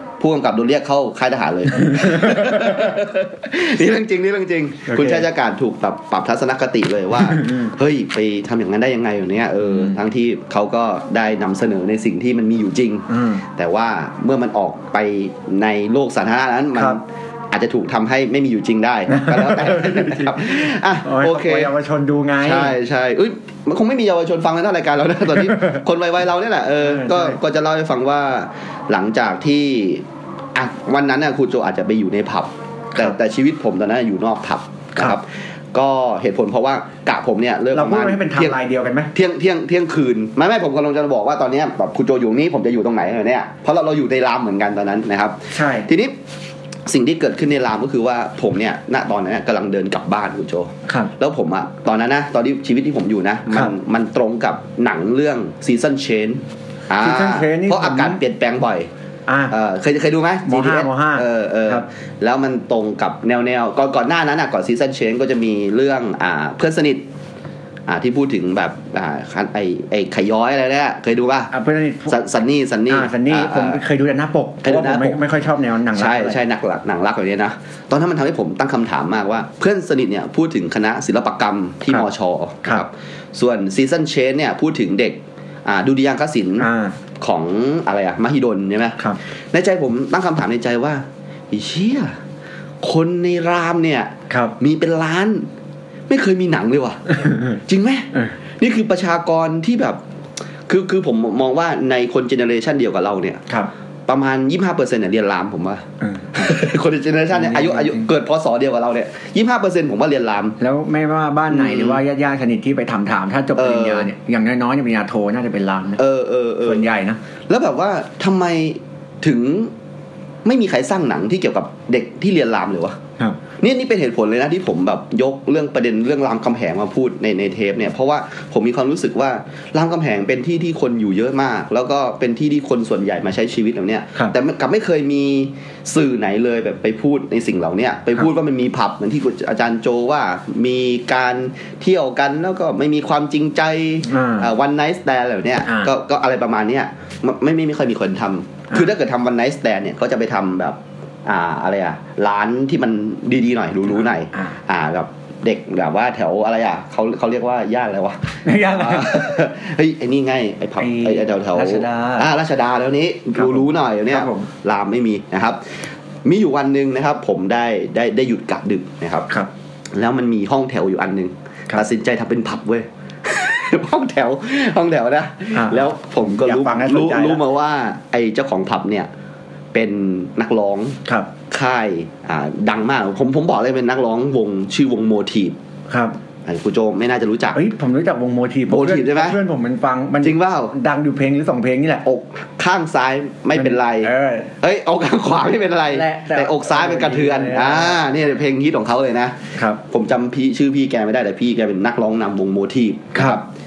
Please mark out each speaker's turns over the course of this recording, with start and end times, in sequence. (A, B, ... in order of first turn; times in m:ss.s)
0:00.2-0:17.0 A
0:01.8-0:03.0 B
0:04.9-0:05.3 B
0:07.2-0:07.7 B
0:09.6-0:10.0 B
0:13.1-0:13.4 B
0:17.5-0:21.7 A
0:19.1-0:22.8 B
0:22.4-0:38.6 A
0:25.5-0:25.8 B
0:26.8-0:27.4 B
0:37.7-0:39.1 B
0:39.1-0:46.2 A
0:45.5-0:45.9 B
0:46.9-0:58.9 A
0:50.9-0:51.1 B
0:57.0-0:58.2 B
0:59.3-0:59.6 B
0:59.5-1:07.0 A
1:00.5-1:01.8 B
1:07.9-1:11.5 A
1:11.5-1:12.2 B
1:12.1-1:13.8 A
1:12.9-1:16.4 B
1:14.6-1:15.2 A
1:15.9-1:26.7 A
1:26.6-1:27.0 B
1:27.2-1:29.0 A
1:29.5-1:32.2 A
1:32.8-1:35.5 A
1:34.3-1:34.6 B
1:36.1-1:40.0 A
1:37.2-1:37.6 B
1:40.7-1:43.4 A
1:44.1-1:50.6 A
1:46.0-1:46.5 B
1:47.3-1:48.1 B
1:50.6-1:56.0 B
1:51.5-1:52.0 A
1:53.6-1:54.1 A
1:56.0-1:56.9 A
1:56.6-1:57.2 B
1:57.5-1:59.7 A
2:00.4-2:03.0 A
2:03.6-2:45.6 A
2:24.0-2:24.5 B
2:25.6-2:25.9 B
2:34.3-2:34.6 B
2:38.4-2:39.5 B
2:40.8-2:42.3 B
2:43.4-2:44.5 B
2:46.2-2:49.3 A
2:49.9-2:59.1 A
2:55.5-2:57.4 B
2:59.7-3:05.6 A
3:05.9-3:06.2 B
3:06.4-3:07.6 A
3:07.6-3:12.0 B
3:08.7-3:09.4 A
3:10.2-3:10.7 A
3:12.0-3:23.4 A
3:13.6-3:14.5 B
3:15.9-3:18.0 B
3:23.1-3:23.4 B